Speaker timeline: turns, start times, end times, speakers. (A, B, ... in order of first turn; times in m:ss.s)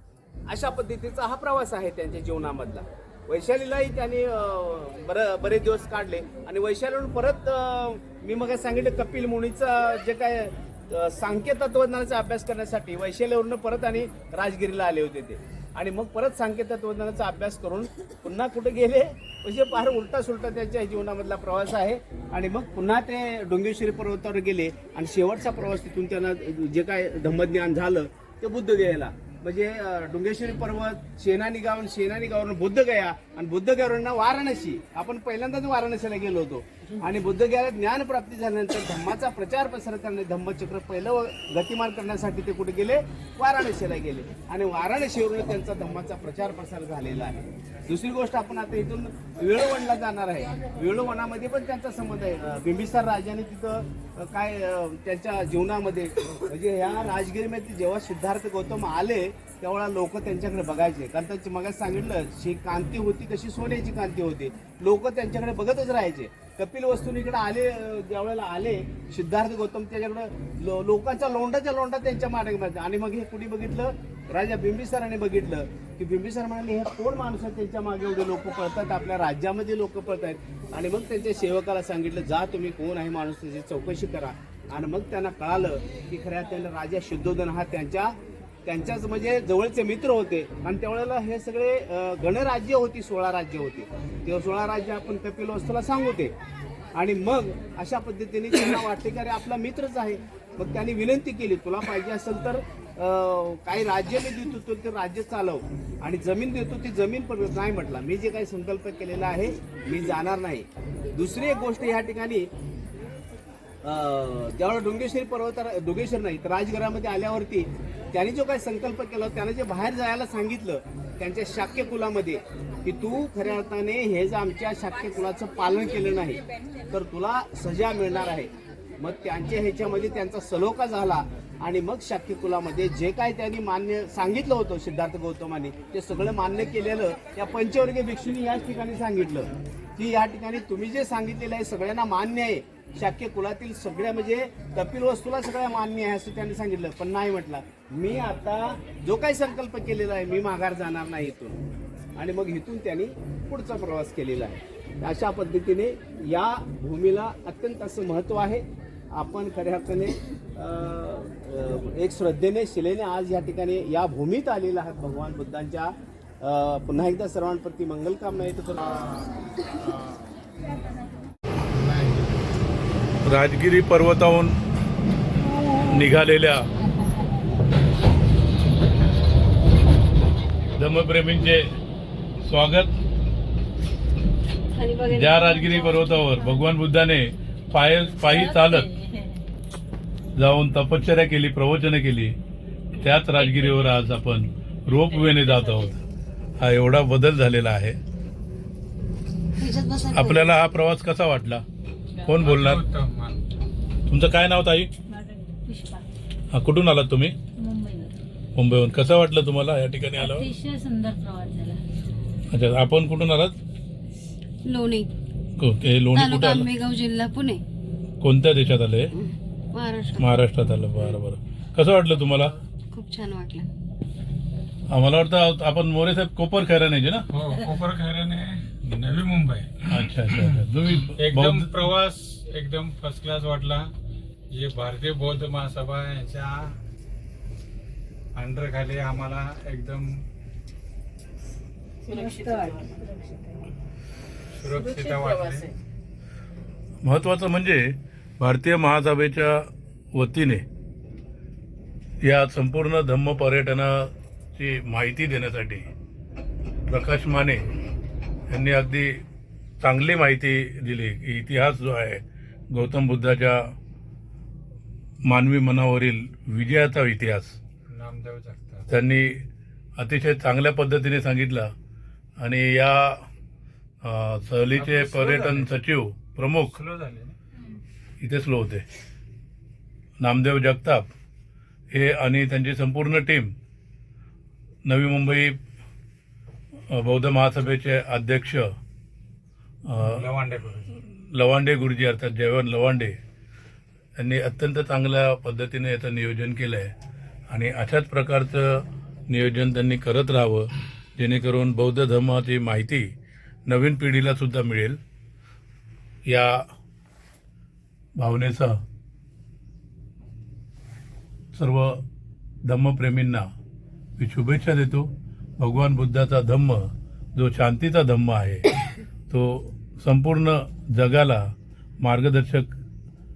0:00.5-1:36.3 A
1:36.9-1:52.5 A
1:53.8-2:31.6 A
2:32.2-2:49.2 A
2:53.3-2:54.5 B
2:55.7-2:56.7 B
3:00.8-3:01.6 B
3:02.4-3:02.9 B
3:05.1-3:08.9 B
3:08.2-3:09.4 C
3:10.4-3:12.4 B
3:13.0-3:16.0 B
3:13.4-3:13.8 C
3:15.3-3:15.8 C
3:16.6-3:18.0 B
3:19.6-3:20.4 D
3:20.1-3:21.6 B
3:22.2-3:22.8 B
3:22.3-3:23.4 E
3:24.1-3:24.9 B
3:25.1-3:26.0 C
3:26.5-3:27.4 B
3:27.6-3:28.2 C
3:28.6-3:30.5 B
3:30.2-3:31.8 C
3:32.5-3:33.6 B
3:34.6-3:35.1 D
3:35.6-3:36.7 B
3:36.2-3:37.6 D
3:38.2-3:39.1 B
3:39.2-3:40.2 D
3:40.2-3:42.6 B
3:42.9-3:43.7 D
3:44.9-3:47.3 B
3:47.3-3:50.6 E
3:49.9-3:51.7 B
3:51.2-3:53.9 E
3:54.5-3:56.8 E
3:58.4-4:00.2 E
4:02.1-4:02.9 D
4:02.2-4:03.5 C
4:04.5-4:05.7 E
4:05.1-4:05.6 D
4:07.0-4:10.6 B
4:12.2-4:15.9 B
4:16.9-4:17.7 B
4:18.5-4:19.2 B
4:19.8-4:23.6 B
4:25.3-4:27.6 B
4:27.9-4:28.9 E
4:28.9-4:29.4 B
4:30.0-4:31.7 B
4:32.4-4:33.2 B
4:34.0-4:36.8 B
4:34.8-4:35.7 E
4:36.7-4:37.4 E
4:38.2-4:38.8 B
4:40.2-4:41.1 B
4:41.9-4:43.5 B
4:44.8-4:45.6 B
4:46.9-4:48.7 B
4:49.9-4:50.2 B
4:50.0-4:51.0 E
4:51.1-4:53.2 B
4:54.2-4:56.9 B
4:57.5-5:03.0 B
5:03.7-5:05.0 B
5:06.3-5:06.6 B
5:08.2-5:08.8 B
5:11.5-5:12.0 B
5:12.6-5:13.4 B
5:14.2-5:15.1 B
5:15.6-5:16.8 B
5:17.4-5:18.7 B
5:19.3-5:21.4 B
5:22.0-5:22.7 B